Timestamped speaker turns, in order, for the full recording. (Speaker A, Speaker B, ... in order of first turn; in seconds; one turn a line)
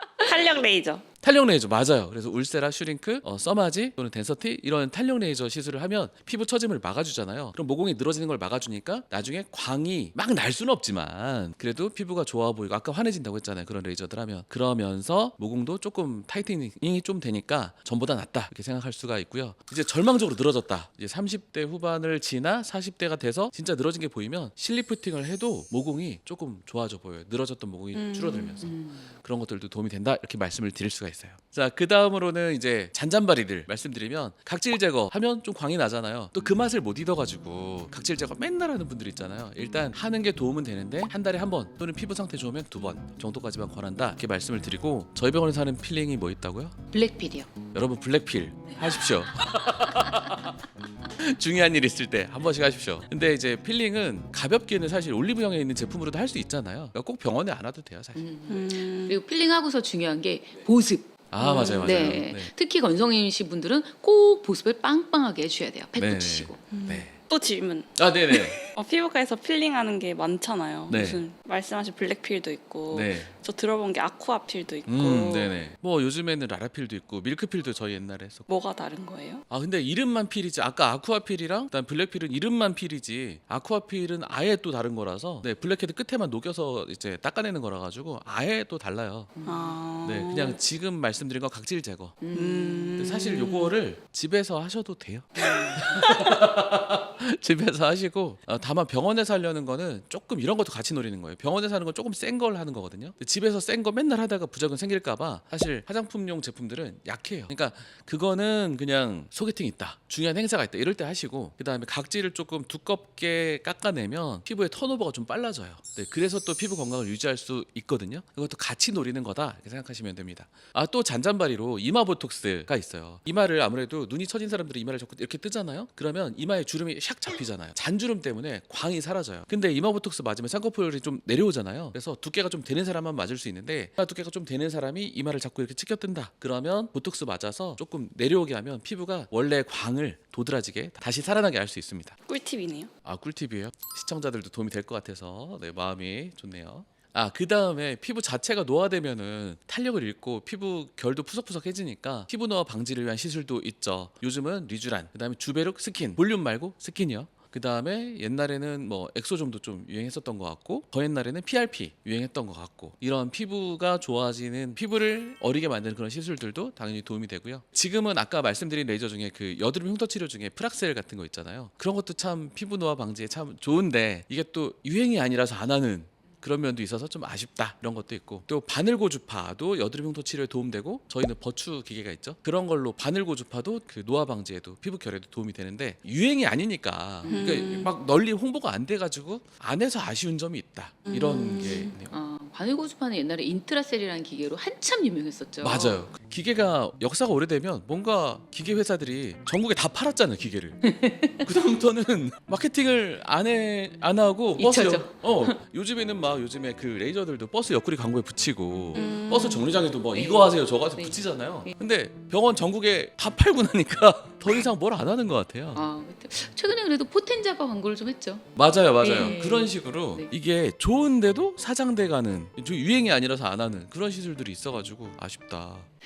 Speaker A: 0.2-1.0
Speaker B: 1.2-46.8
Speaker A: 27.9-28.7
Speaker C: 28.6-29.1
Speaker C: 46.9-47.5
Speaker B: 47.7-58.2
Speaker C: 58.1-66.6
Speaker A: 58.5-59.2
Speaker B: 61.3-62.5
Speaker A: 61.4-62.1
Speaker B: 66.0-67.2
Speaker A: 66.7-75.6
Speaker B: 68.0-68.6
Speaker B: 70.9-71.2
Speaker B: 72.9-73.3
Speaker B: 74.9-78.5
Speaker A: 78.5-79.4
Speaker B: 79.5-89.3
Speaker C: 89.4-89.7
Speaker A: 89.5-90.6
Speaker B: 90.0-92.2
Speaker C: 92.2-93.0
Speaker A: 92.3-93.8
Speaker B: 93.0-142.2
Speaker C: 95.4-96.0
Speaker A: 142.3-142.9
Speaker B: 143.1-192.1
Speaker A: 187.3-187.9
Speaker A: 191.1-191.9
Speaker C: 192.1-196.0
Speaker B: 195.6-200.8
Speaker C: 200.8-201.5
Speaker B: 201.4-215.8
Speaker C: 204.6-205.6
Speaker A: 208.9-209.7
Speaker C: 210.1-211.7
Speaker C: 215.8-218.4
Speaker B: 218.6-225.9
Speaker C: 219.0-220.3